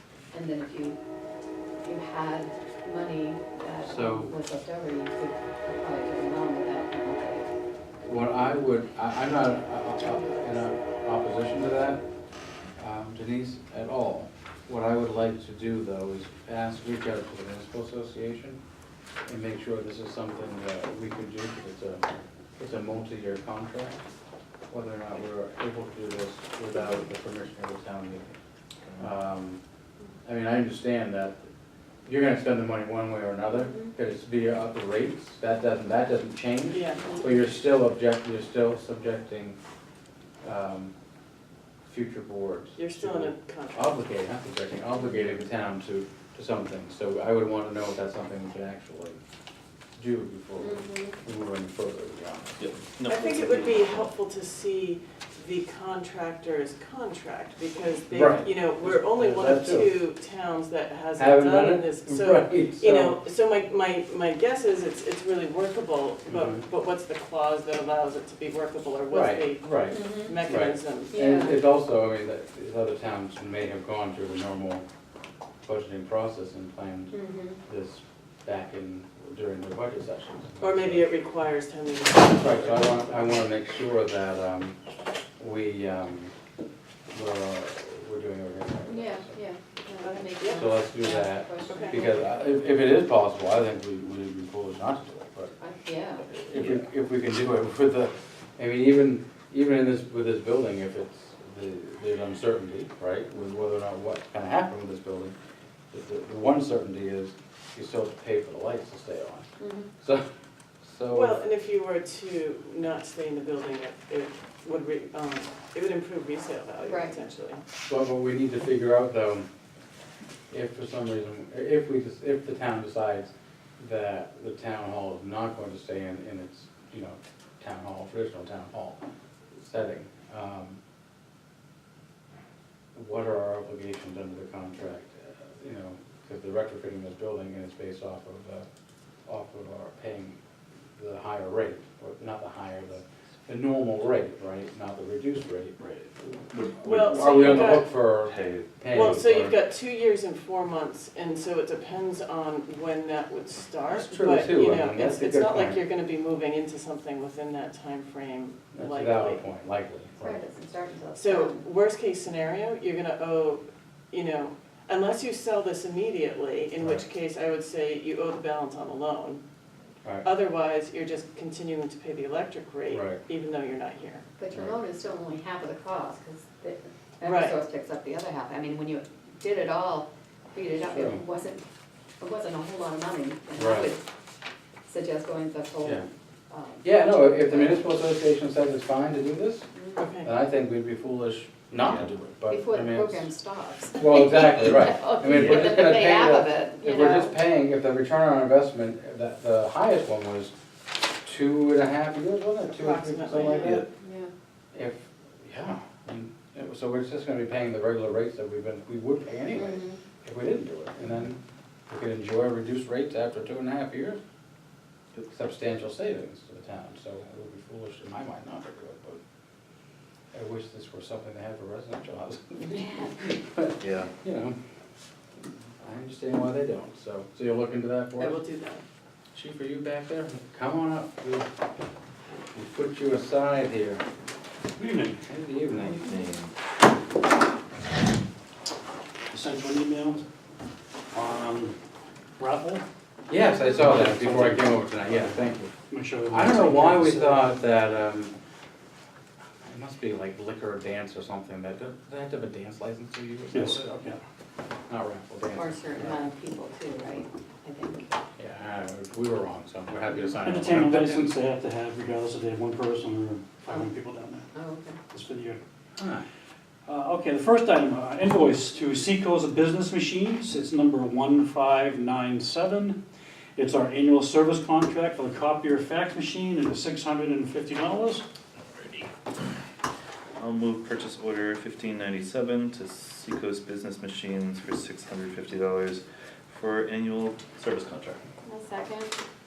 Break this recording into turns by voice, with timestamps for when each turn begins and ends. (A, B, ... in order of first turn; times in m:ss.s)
0:00.3-0:01.0 A
0:01.8-0:07.5 A
0:03.8-0:04.3 B
0:08.0-0:12.0 B
0:12.8-0:18.6 B
0:19.2-0:22.0 B
0:22.6-0:24.0 B
0:24.7-0:28.3 B
0:28.8-0:29.1 C
0:29.0-0:29.6 B
0:30.2-0:31.4 B
0:32.0-0:39.6 B
0:36.7-0:37.2 D
0:40.4-0:40.9 B
0:41.9-0:49.2 B
0:42.8-0:44.0 D
0:50.0-0:52.6 B
0:50.6-0:51.2 A
0:52.6-0:54.1 C
0:53.1-1:11.1 D
0:58.1-0:59.9 B
1:01.2-1:03.2 B
1:06.3-1:06.6 B
1:09.1-1:14.8 B
1:09.9-1:10.4 A
1:11.1-1:11.6 A
1:15.6-1:21.0 B
1:17.1-1:17.6 A
1:20.6-1:23.4 D
1:22.3-1:24.8 B
1:25.4-1:26.3 B
1:27.1-1:29.4 B
1:28.9-1:32.6 A
1:30.0-1:30.7 D
1:30.5-1:35.6 B
1:31.6-1:32.1 D
1:35.6-1:36.2 A
1:36.2-1:45.3 B
1:36.5-1:36.8 C
1:45.9-1:49.4 B
1:49.6-1:49.9 A
1:50.8-1:51.4 B
1:51.1-1:57.6 D
1:56.8-1:57.2 A
1:57.9-1:59.5 B
2:00.5-2:09.0 B
2:09.6-2:10.8 B
2:12.9-2:18.6 B
2:19.2-2:20.4 B
2:21.0-2:25.8 B
2:25.8-2:29.1 C
2:26.8-2:27.9 D
2:27.0-2:29.6 B
2:28.9-2:39.4 D
2:33.9-2:35.8 B
2:38.7-2:40.4 B
2:40.2-2:41.6 A
2:41.2-2:49.4 D
2:50.2-2:54.2 D
2:52.9-2:53.2 B
2:54.4-3:01.6 A
2:57.2-2:57.6 D
3:00.8-3:01.2 B
3:02.2-3:04.0 A
3:03.6-3:03.9 B
3:04.8-3:07.8 A
3:05.8-3:06.1 B
3:06.8-3:09.7 B
3:09.7-3:10.0 A
3:10.0-3:10.3 D
3:10.2-3:13.3 B
3:11.8-3:12.1 C
3:12.5-3:17.4 A
3:13.9-3:20.5 B
3:15.3-3:15.6 C
3:21.2-3:23.8 B
3:22.7-3:23.8 D
3:23.5-3:23.9 C
3:23.9-3:24.3 A
3:24.7-3:31.4 B
3:29.5-3:30.0 A
3:31.9-3:34.2 B
3:35.3-3:39.2 B
3:40.3-3:44.6 B
3:42.8-3:43.1 A
3:43.8-3:44.1 C
3:45.8-3:48.4 B
3:48.2-3:48.8 D
3:49.3-3:51.5 B
3:52.5-3:54.0 B
3:54.8-3:55.2 E
3:55.2-3:56.0 B
3:55.9-3:56.5 C
3:59.3-4:00.2 E
4:01.1-4:01.8 E
4:02.4-4:02.8 E
4:03.3-4:05.7 B
4:03.3-4:03.7 A
4:03.8-4:05.4 E
4:05.9-4:07.6 E
4:06.3-4:08.3 B
4:09.6-4:13.9 B
4:13.5-4:14.2 E
4:14.9-4:16.3 B
4:15.5-4:18.1 A
4:18.4-4:21.3 B
4:20.4-4:24.5 E
4:24.5-4:25.0 A
4:25.1-4:25.6 E
4:26.0-4:26.2 B
4:26.9-4:33.0 E
4:33.6-4:38.2 E
4:38.7-4:39.1 C
4:40.4-4:48.2 C
4:48.4-4:49.1 A